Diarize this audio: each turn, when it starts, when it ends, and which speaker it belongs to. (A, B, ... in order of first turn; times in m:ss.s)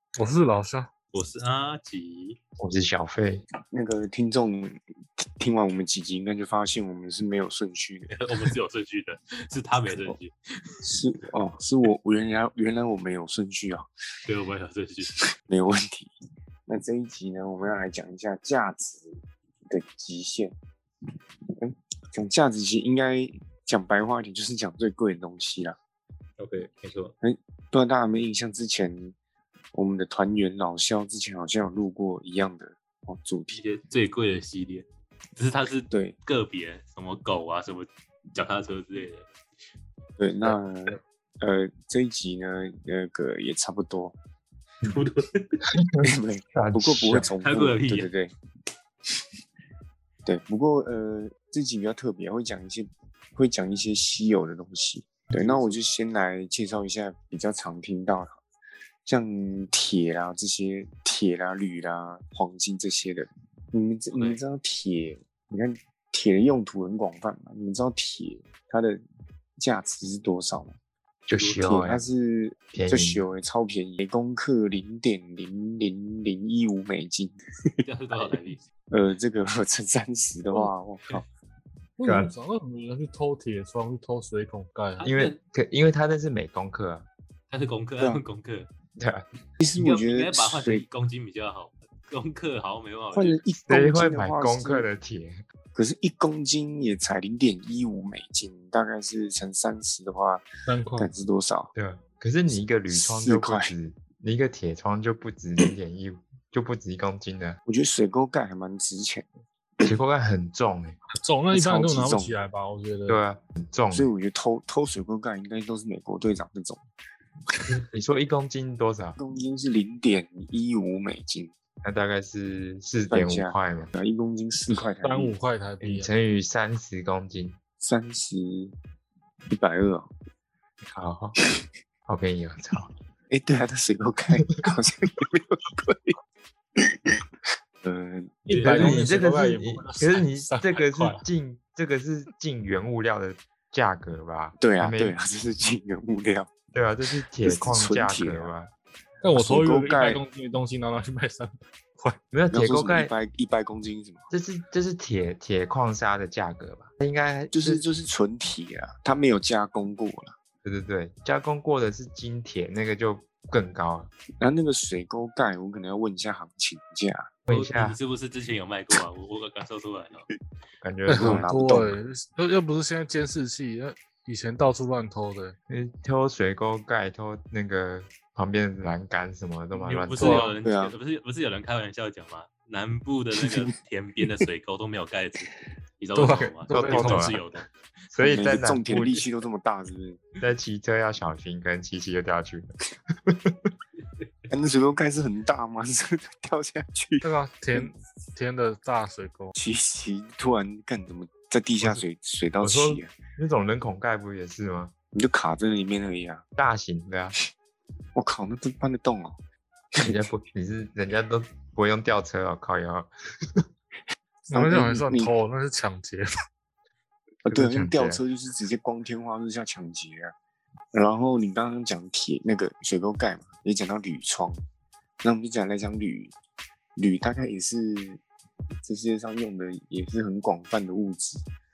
0:00.2-0:00.9 A
0:01.1-0:02.4 B
0:02.6-0:03.4 C
0:03.7-0:08.4 D
0:08.1-0:10.7 B
0:10.8-0:13.9 D
0:14.3-0:15.2 B
0:15.5-0:16.1 D
0:16.7-0:19.2 D
0:19.7-0:20.6 D
0:21.6-0:25.8 D
0:26.4-0:27.1 B
0:27.2-0:29.2 D
0:29.7-0:33.6 D
0:33.5-0:39.3 B
0:40.2-0:44.2 D
0:44.8-0:45.6 B
0:45.8-0:47.3 C
0:46.0-0:48.3 D
0:47.4-0:48.1 B
0:50.2-0:58.4 D
0:55.3-0:55.8 B
0:59.0-1:09.0 D
1:04.1-1:04.4 B
1:09.6-1:10.8 D
1:11.3-1:12.0 C
1:11.3-1:11.7 B
1:11.6-1:21.2 D
1:12.7-1:13.2 C
1:17.8-1:18.6 B
1:22.0-1:25.1 A
1:22.0-1:22.3 C
1:25.0-1:25.4 B
1:25.0-1:27.1 C
1:27.5-1:28.7 B
1:29.0-1:29.2 C
1:29.6-1:30.8 D
1:29.8-1:33.4 B
1:33.1-1:34.9 D
1:33.7-1:35.4 C
1:35.8-1:40.4 D
1:40.7-1:41.1 A
1:41.0-1:41.7 D
1:41.8-1:47.6 C
1:42.5-1:43.7 D
1:47.7-1:49.3 D
1:49.8-1:51.0 C
1:51.2-1:53.2 A
1:51.5-1:52.3 D
1:53.1-1:54.1 C
1:53.9-1:56.8 D
1:57.9-1:59.2 C
1:59.2-2:01.5 D
2:01.8-2:03.9 C
2:03.1-2:05.4 D
2:05.0-2:06.1 A
2:05.8-2:07.6 C
2:07.8-2:08.7 D
2:09.5-2:10.1 D
2:10.8-2:11.4 C
2:12.1-2:12.9 C
2:13.3-2:16.2 D
2:16.8-2:17.2 D
2:17.8-2:18.6 D
2:18.5-2:21.2 A
2:18.5-2:19.1 B
2:18.6-2:25.2 C
2:24.6-2:26.5 D
2:26.7-2:28.7 C
2:27.4-2:28.5 D
2:29.2-2:32.2 A
2:29.3-2:30.2 D
2:32.3-2:33.1 C
2:32.5-2:34.2 D
2:34.3-2:37.8 C
2:37.5-2:40.4 D
2:40.6-2:44.1 C
2:44.4-2:47.3 D
2:47.5-2:48.0 C
2:47.5-2:50.3 B
2:50.8-2:51.8 C
2:51.1-2:55.6 A
2:51.1-2:52.0 D
2:55.7-3:00.6 C
2:59.7-3:07.7 B
3:00.2-3:00.5 A
3:00.6-3:01.0 D
3:03.4-3:03.7 D
3:06.2-3:07.4 A
3:06.7-3:07.4 C
3:08.1-3:09.2 C
3:08.2-3:10.2 D
3:10.4-3:13.7 C
3:14.5-3:17.9 D
3:17.2-3:19.5 A
3:19.6-3:23.1 D
3:22.6-3:24.9 C
3:25.1-3:26.4 D
3:26.6-3:27.4 C
3:28.2-3:29.4 D
3:29.9-3:30.3 D
3:30.0-3:33.6 C
3:34.5-3:36.3 A
3:34.5-3:35.3 D
3:37.4-3:40.3 D
3:37.5-3:38.2 C
3:40.9-3:44.6 D
3:45.2-3:46.3 D
3:47.0-3:48.2 D
3:48.8-3:51.4 D